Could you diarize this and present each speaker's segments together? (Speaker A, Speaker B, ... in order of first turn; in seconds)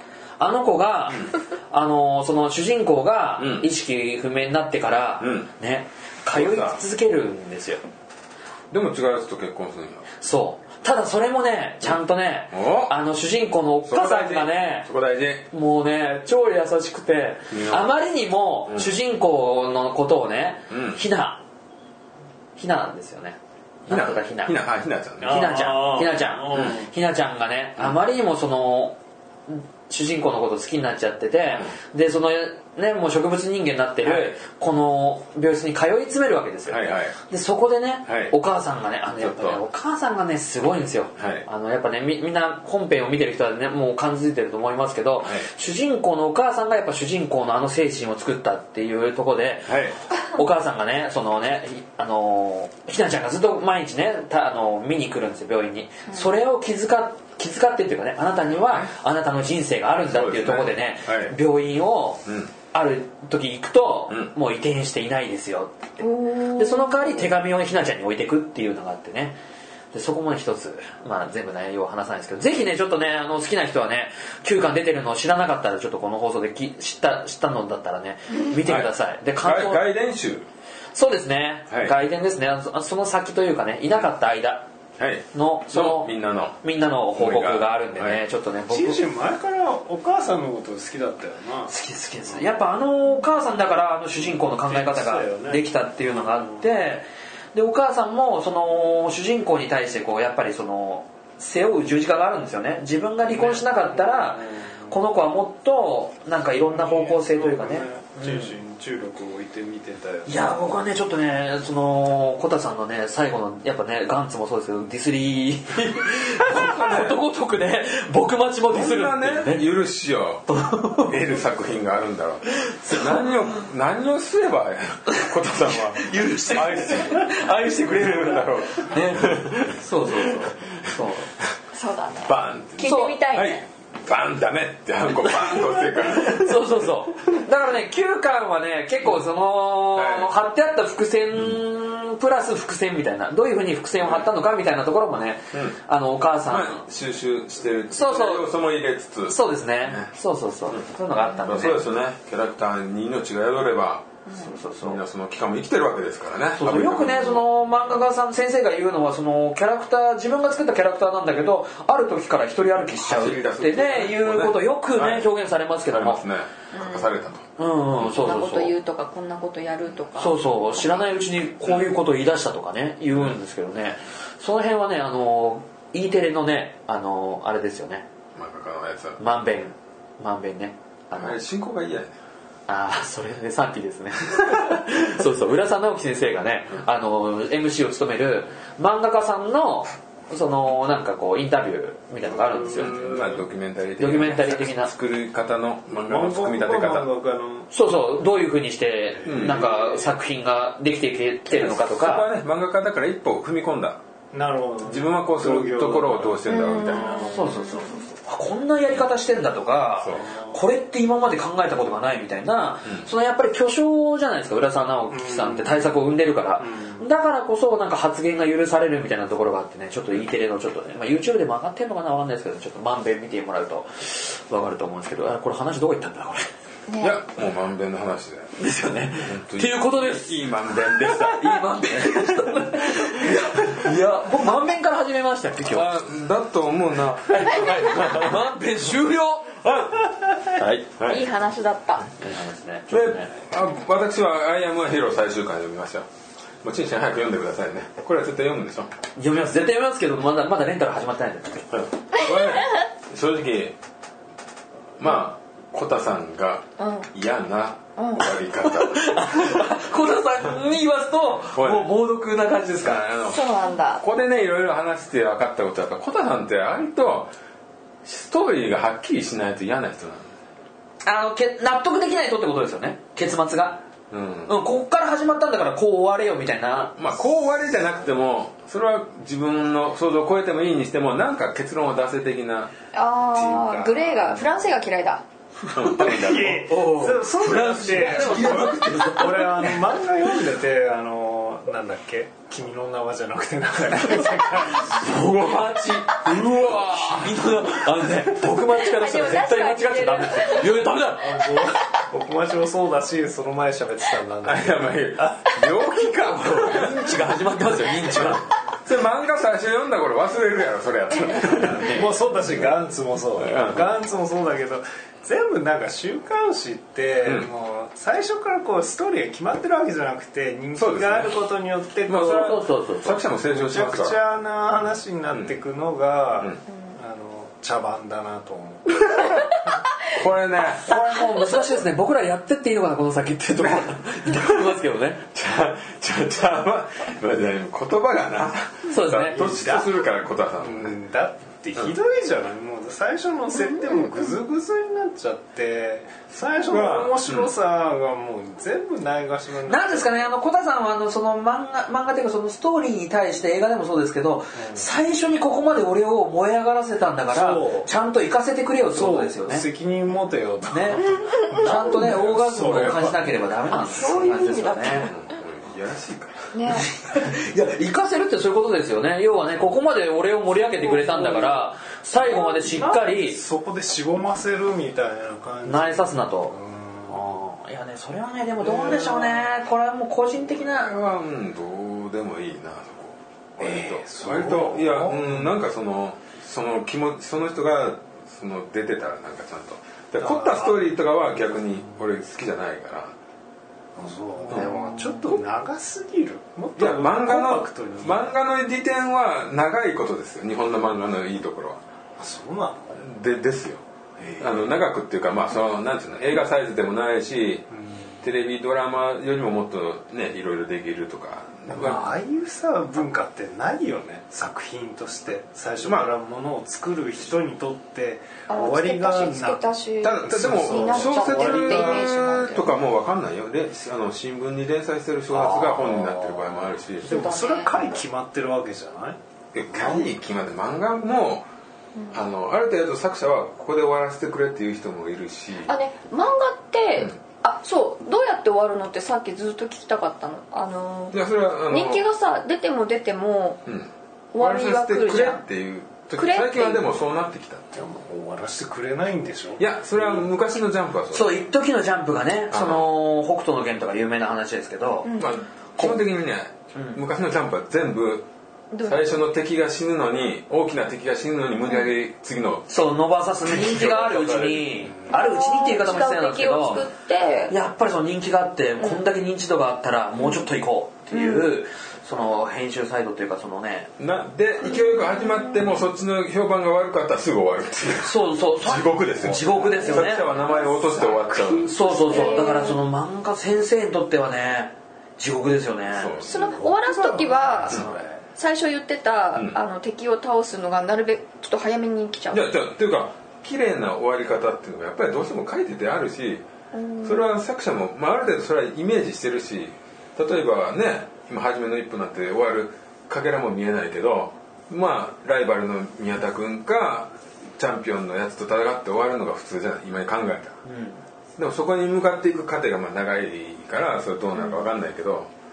Speaker A: 0.4-7.8, 10.2-14.9, 15.5-21.4, 22.6-24.6, 25.2-29.0, 29.5-69.4, 69.9-79.9, 80.9-84.7, 85.3-89.0, 91.7-108.5, 110.2-119.7, 120.5-121.1, 122.6-123.3, 125.9-131.3, 132.8-133.2, 135.2-146.8, 147.9-148.5, 149.3-151.8, 154.3-155.0, 156.6-166.2, 167.6-168.7, 170.2-178.1, 179.2-181.4, 182.7-193.1, 194.0-194.9, 197.7-202.3, 207.2-226.5, 228.6-235.9, 237.3-239.9, 240.4-240.9, 242.2-243.4, 249.2-251.7, 258.6-263.1, 271.0-273.8, 274.5-276.9, 285.6-289.8, 294.7-301.7, 306.2-308.5, 311.5-312.1, 322.1-323.2, 330.8-335.2, 338.9-339.4, 349.6-359.7, 360.7-365.1, 366.7-373.4, 375.6-376.6, 377.1-380.9, 394.5-395.2, 425.3-426.6, 451.1-455.1, 462.7-466.9, 467.5-473.9, 478.0-480.3, 481.6-486.1, 510.6-511.0
Speaker B: 3.4-3.7, 5.2-5.5, 6.3-6.8, 8.7-10.1, 12.5-12.9, 13.9-15.5, 17.5-17.9, 18.7-18.9, 20.7-21.0, 23.9-25.5, 34.0-34.3, 36.7-37.2, 38.1-38.3, 39.2-39.6, 41.2-41.5, 49.7-50.0, 60.1-61.4, 62.3-62.5, 79.4-80.5, 85.0-86.6, 87.2-88.2, 116.5-117.2, 118.7-120.5, 121.0-131.5, 132.3-136.8, 139.9-140.3, 146.5-150.1, 150.7-154.2, 154.8-157.4, 163.0-165.3, 165.9-167.4, 168.0-168.3, 178.3-179.2, 181.2-182.2, 192.7-197.1, 199.2-199.9, 201.5-204.0, 204.8-207.3, 210.0-210.3, 227.0-228.5, 229.2-232.3, 232.8-234.0, 235.7-238.4, 239.6-239.9, 241.0-241.3, 242.9-246.1, 246.6-248.9, 251.7-253.8, 255.0-259.5, 261.5-261.9, 262.8-263.5, 264.0-267.3, 268.0-270.3, 274.1-274.5, 276.9-282.7, 285.7-286.7, 287.4-289.0, 295.2-297.4, 304.4-307.1, 308.1-312.7, 313.4-313.9, 317.2-317.5, 320.8-321.4, 322.1-324.2, 325.3-325.6, 329.1-329.5, 330.1-330.9, 333.6-334.7, 335.3-340.9, 346.6-347.5, 365.0-366.5, 378.6-379.1, 380.6-393.1, 394.5-394.8, 396.8-401.8, 403.0-403.8, 404.4-407.7, 408.2-412.1, 415.8-416.1, 420.0-427.1, 429.5-431.5, 432.1-435.7, 441.1-442.1, 443.6-447.7, 449.6-451.4, 452.5-452.9, 455.1-458.3, 458.8-462.7, 463.4-464.9, 474.0-481.8, 485.9-486.4, 489.3-489.6, 492.3-496.4, 497.0-510.6, 511.4-515.3
Speaker C: 25.2-26.9, 88.7-91.7, 94.6-96.8, 103.3-105.0, 106.7-110.6, 192.8-193.4, 195.9-197.7, 199.2-200.0, 204.3-207.7, 210.2-210.6, 215.1-216.0, 216.6-217.1, 283.3-284.5, 285.9-295.1, 301.2-305.6, 311.4-322.6, 323.5-329.4, 339.4-340.0, 340.6-350.3, 354.6-354.9, 357.3-357.9, 358.9-363.3, 370.8-371.5, 372.2-377.2, 378.8-379.3, 383.6-385.5, 390.2-390.9, 393.9-398.4, 402.2-403.1, 404.2-404.7, 407.7-408.1, 411.7-419.6, 420.2-422.1, 427.0-429.2, 429.7-430.1, 447.7-450.2, 479.8-482.5, 486.2-488.2
Speaker D: 66.0-67.3, 131.7-133.6, 166.7-167.2, 168.2-170.4, 206.5-208.0, 226.9-227.2, 241.0-242.1, 256.8-257.1, 258.0-258.2, 263.3-264.0, 282.9-285.2, 298.8-300.8, 343.6-343.9, 361.3-361.8, 363.7-365.1, 366.5-366.9, 418.5-422.8, 427.0-428.0, 431.9-432.2, 435.6-443.6, 444.3-445.4, 446.1-446.9, 455.0-455.4, 458.7-459.2, 465.1-467.5, 470.2-470.4, 471.1-471.5, 474.7-475.4, 482.0-482.8, 486.2-492.4, 496.7-497.3